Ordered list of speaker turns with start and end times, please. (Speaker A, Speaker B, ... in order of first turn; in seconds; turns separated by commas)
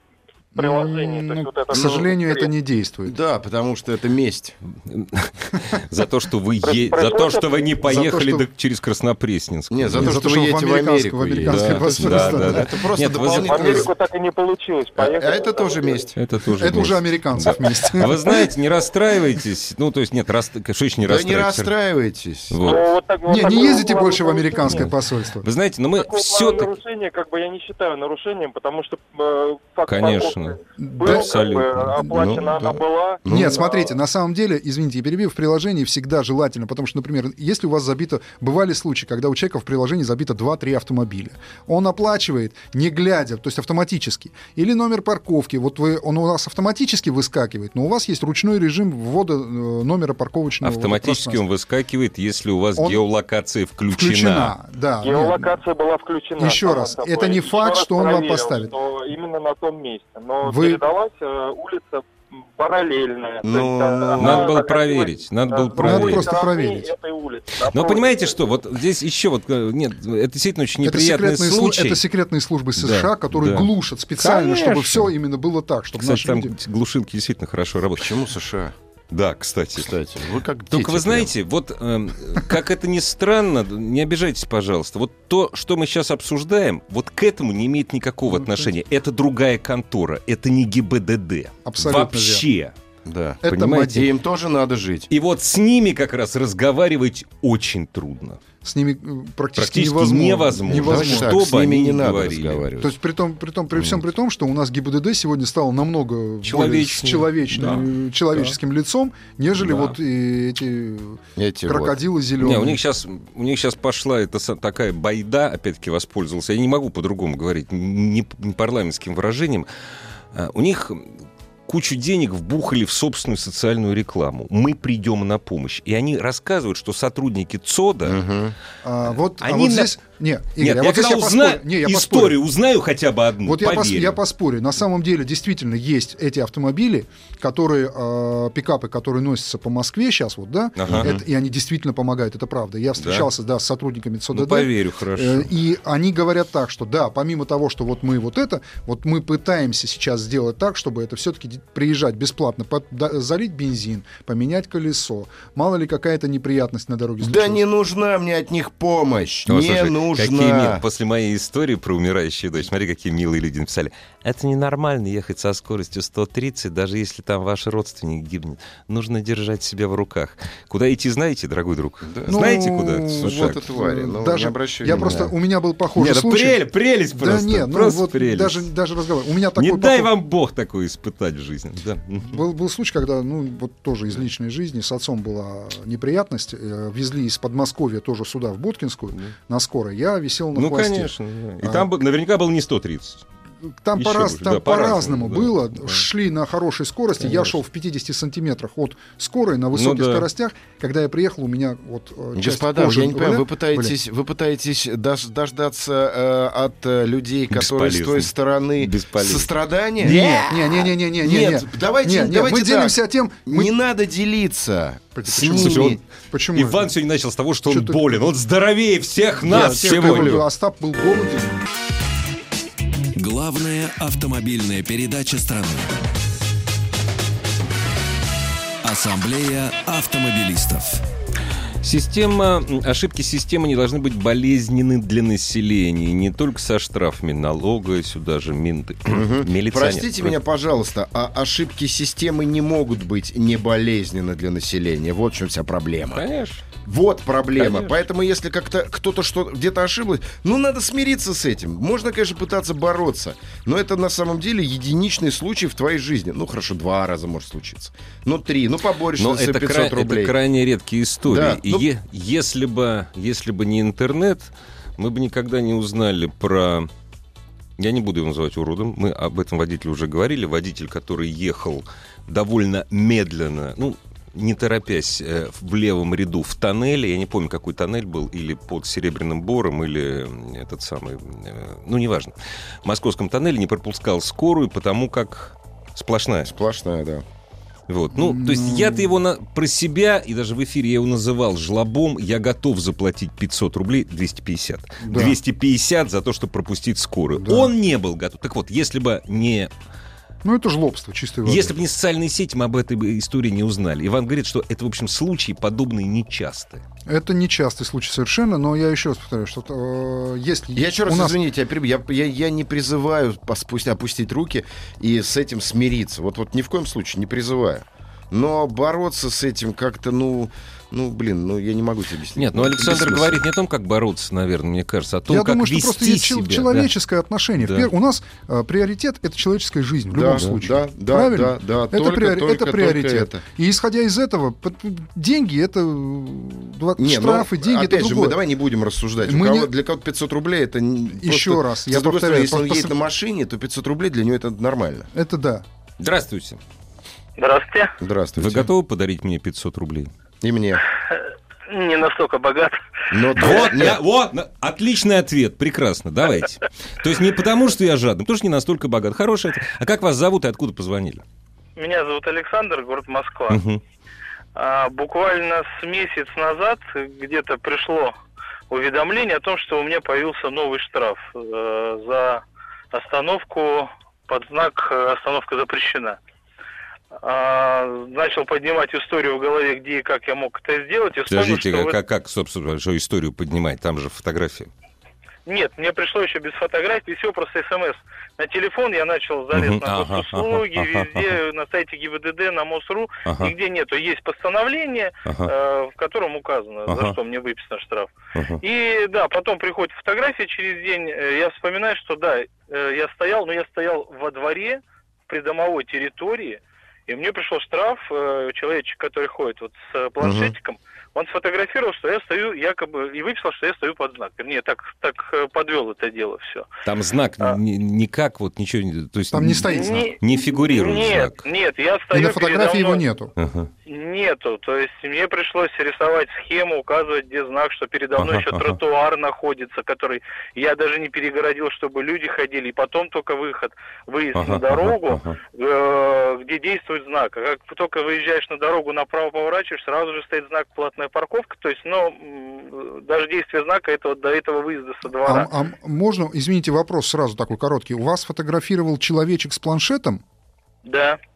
Speaker A: 0.6-2.5, Speaker B: 0.6-3.1, Speaker C: 3.0-4.6, Speaker D: 4.9-10.2, Speaker A: 6.6-7.7, Speaker B: 7.8-8.5, Speaker C: 9.7-13.9, Speaker B: 9.9-12.7, Speaker D: 11.5-13.9, Speaker A: 13.2-16.1, Speaker C: 15.0-16.1, Speaker D: 16.2-21.7, Speaker B: 16.6-18.3, Speaker C: 21.1-22.8, Speaker D: 22.5-22.8, Speaker A: 22.6-24.9, Speaker B: 23.3-25.5, Speaker D: 24.6-26.8, Speaker A: 26.0-33.9, Speaker D: 29.9-31.9, Speaker B: 30.8-31.5, Speaker C: 32.1-33.6, Speaker B: 33.3-51.4, Speaker D: 50.6-54.5, Speaker B: 52.8-53.0, Speaker B: 53.9-55.6, Speaker A: 55.0-62.0, Speaker B: 56.4-58.8, Speaker B: 60.4-60.8, Speaker A: 62.6-68.4, Speaker C: 63.4-64.5, Speaker D: 64.2-66.3, Speaker B: 65.8-66.9, Speaker D: 67.7-72.0, Speaker B: 70.8-76.5, Speaker D: 72.8-75.1, Speaker D: 76.0-78.2, Speaker C: 78.0-78.8, Speaker D: 79.1-79.9, Speaker C: 79.8-81.3, Speaker D: 80.7-92.7, Speaker B: 88.3-88.7, Speaker B: 91.7-92.5, Speaker C: 93.1-95.1, Speaker B: 93.4-94.1, Speaker D: 93.5-94.1, Speaker D: 95.1-98.4, Speaker B: 98.6-101.4, Speaker D: 99.6-102.7, Speaker C: 100.7-102.9, Speaker B: 102.8-112.8, Speaker D: 106.4-107.9, Speaker D: 109.6-110.0, Speaker C: 111.4-112.0, Speaker D: 112.4-119.7, Speaker D: 120.3-128.2, Speaker C: 128.0-128.6, Speaker B: 128.8-132.4, Speaker D: 129.4-129.9, Speaker D: 130.6-134.2, Speaker B: 133.4-157.6, Speaker D: 140.8-141.1, Speaker C: 140.9-141.2, Speaker D: 143.0-143.3, Speaker D: 144.3-145.5, Speaker C: 157.2-160.8, Speaker D: 159.5-173.6, Speaker C: 172.1-172.4, Speaker B: 172.3-176.6, Speaker C: 173.1-175.3, Speaker D: 174.9-175.3, Speaker D: 176.0-178.7, Speaker B: 177.1-180.1, Speaker D: 179.6-182.4, Speaker B: 182.2-191.9, Speaker D: 190.5-193.2, Speaker B: 193.7-203.9, Speaker D: 194.0-196.1, Speaker D: 197.2-197.6, Speaker D: 199.7-200.3, Speaker C: 202.4-216.0, Speaker D: 207.5-209.5, Speaker B: 210.0-213.7, Speaker B: 215.1-216.9, Speaker D: 215.6-216.0, Speaker D: 216.5-220.4, Speaker B: 217.7-218.2, Speaker B: 219.4-221.7, Speaker C: 219.5-220.4, Speaker E: 223.2-226.0, Speaker E: 228.8-231.0, Speaker D: 231.8-240.4, Speaker C: 239.1-246.2, Speaker D: 246.1-246.7, Speaker C: 246.8-260.4, Speaker D: 247.6-248.0, Speaker D: 259.2-266.9, Speaker C: 261.3-261.9, Speaker D: 267.8-282.3, Speaker D: 282.9-286.5, Speaker C: 286.4-287.2, Speaker D: 287.9-299.7, Speaker B: 288.1-289.1, Speaker B: 295.0-295.4, Speaker B: 297.4-297.7, Speaker B: 300.4-301.8, Speaker D: 301.5-306.8, Speaker B: 307.1-311.4, Speaker C: 310.8-323.4, Speaker D: 322.4-326.9, Speaker B: 325.3-338.4, Speaker D: 327.6-327.9, Speaker C: 330.1-333.4, Speaker C: 337.0-345.1, Speaker B: 339.2-339.7, Speaker B: 341.1-343.0, Speaker B: 345.1-345.6, Speaker D: 346.0-346.6, Speaker F: 347.4-347.9, Speaker C: 348.0-348.7, Speaker D: 348.4-350.1, Speaker C: 350.4-350.8, Speaker F: 351.1-352.8, Speaker C: 353.1-354.0, Speaker D: 353.4-361.2, Speaker F: 361.8-363.6, Speaker D: 363.5-363.8, Speaker F: 364.6-368.1, Speaker F: 368.7-376.2, Speaker F: 377.2-382.0, Speaker D: 381.3-384.7, Speaker F: 385.5-416.7, Speaker D: 389.5-391.4, Speaker D: 393.2-393.5, Speaker D: 395.2-395.5, Speaker D: 396.9-397.2, Speaker D: 398.4-398.6, Speaker C: 410.2-410.5, Speaker D: 416.9-421.4, Speaker B: 419.3-420.1, Speaker F: 419.7-423.0, Speaker B: 422.1-423.3, Speaker D: 423.4-423.7, Speaker F: 423.9-445.5, Speaker D: 428.2-428.8, Speaker D: 434.4-435.4, Speaker B: 445.2-450.2, Speaker F: 450.9-451.2